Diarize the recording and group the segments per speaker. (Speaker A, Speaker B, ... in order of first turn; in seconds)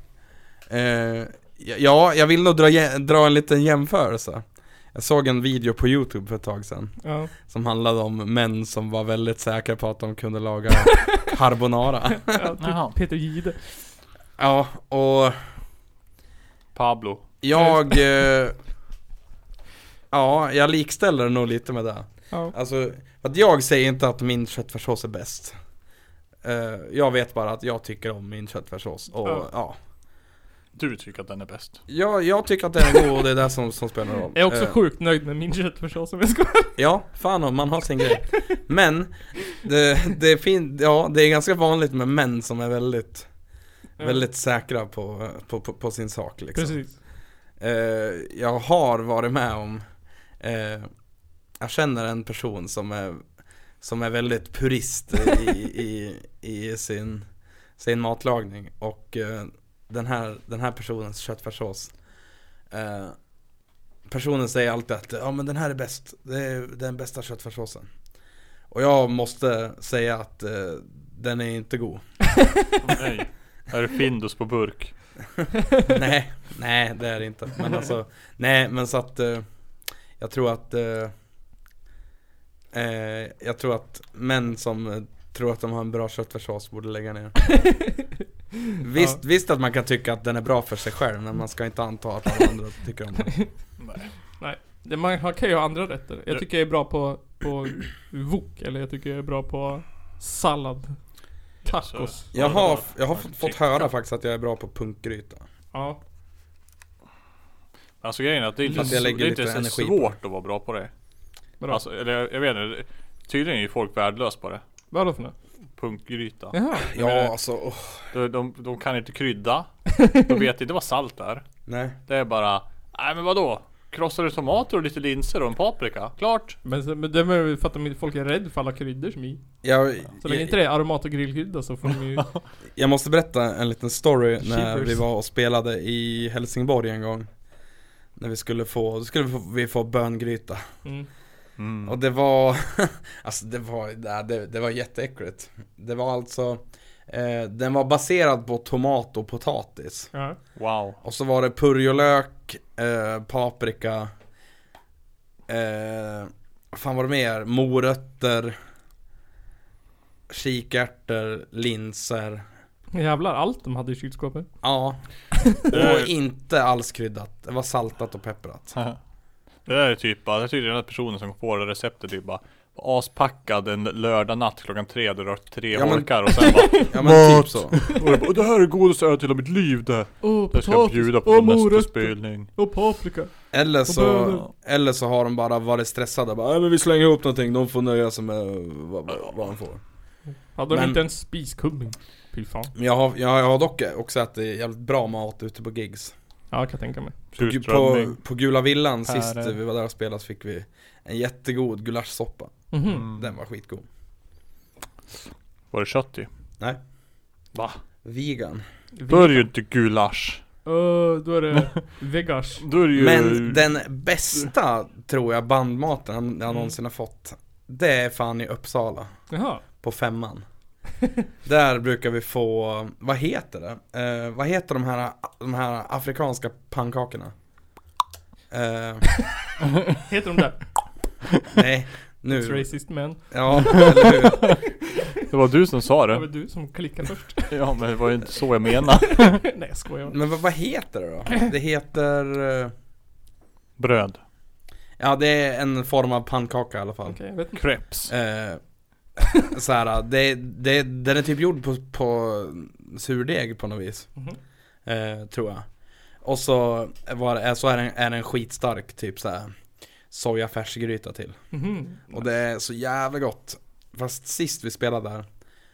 Speaker A: 0.7-12.5, 14.4-15.4, 17.4-18.6, 20.1-25.6, 26.4-29.8, 31.9-34.8, 36.8-43.3, 44.0-46.8, 47.6-49.8, 50.4-50.9, 51.6-53.2, 53.8-57.3, 57.8-61.9, 62.7-63.2, 64.1-67.9, 68.7-72.0, 75.8-79.5, 80.2-81.1, 82.7-87.5, 88.8-93.3, 102.3-105.4, 108.7-110.1, 116.8-118.0, 121.7-122.0, 129.6-130.6, 132.8-137.3, 138.2-140.7, 141.8-150.1, 151.0-154.1, 155.5-158.6, 160.3-162.4, 164.6-165.0, 165.6-168.8, 175.7-177.8, 183.5-189.8, 190.7-191.0, 192.8-196.1, 197.4-203.8, 208.1-208.6, 212.9-219.1, 219.8-220.4, 221.4-227.3, 228.5-229.1, 231.5-234.6, 240.1-242.7, 245.0-247.2, 248.1-248.6, 249.4-254.1, 254.9-255.7, 256.2-259.5, 260.1-261.4, 262.1-265.3
Speaker B: 7.0-7.3, 12.2-13.6, 17.6-17.9, 34.4-36.8, 44.0-44.2, 46.5-47.0, 87.5-88.0, 88.8-89.2, 94.4-101.0, 101.7-102.4, 105.7-106.0, 114.9-115.3, 116.5-117.0, 126.6-129.4, 130.2-132.3, 134.4-135.0, 150.1-150.4, 162.9-164.5, 176.4-176.9, 180.2-184.5, 190.5-192.7, 196.5-197.2, 202.7-203.1, 209.0-209.5, 210.7-212.7, 219.3-219.6, 229.9-230.7, 232.3-233.8, 236.1-237.6, 239.1-240.2, 247.1-247.6, 261.5-262.2
Speaker C: 12.6-12.9, 16.8-17.2, 30.8-31.8, 72.8-74.9, 93.8-94.1, 101.7-103.6, 108.0-110.9, 111.7-114.6, 115.8-117.2, 118.1-121.4, 122.1-126.6, 141.6-141.9, 150.6-151.0, 165.7-166.1, 169.7-182.5, 197.3-198.2, 199.1-199.6, 202.9-203.2, 205.7-206.3, 207.5-207.8, 209.1-210.4, 212.6-213.6, 233.7-234.6, 235.3-236.2, 237.5-239.4, 243.8-244.2, 247.6-248.1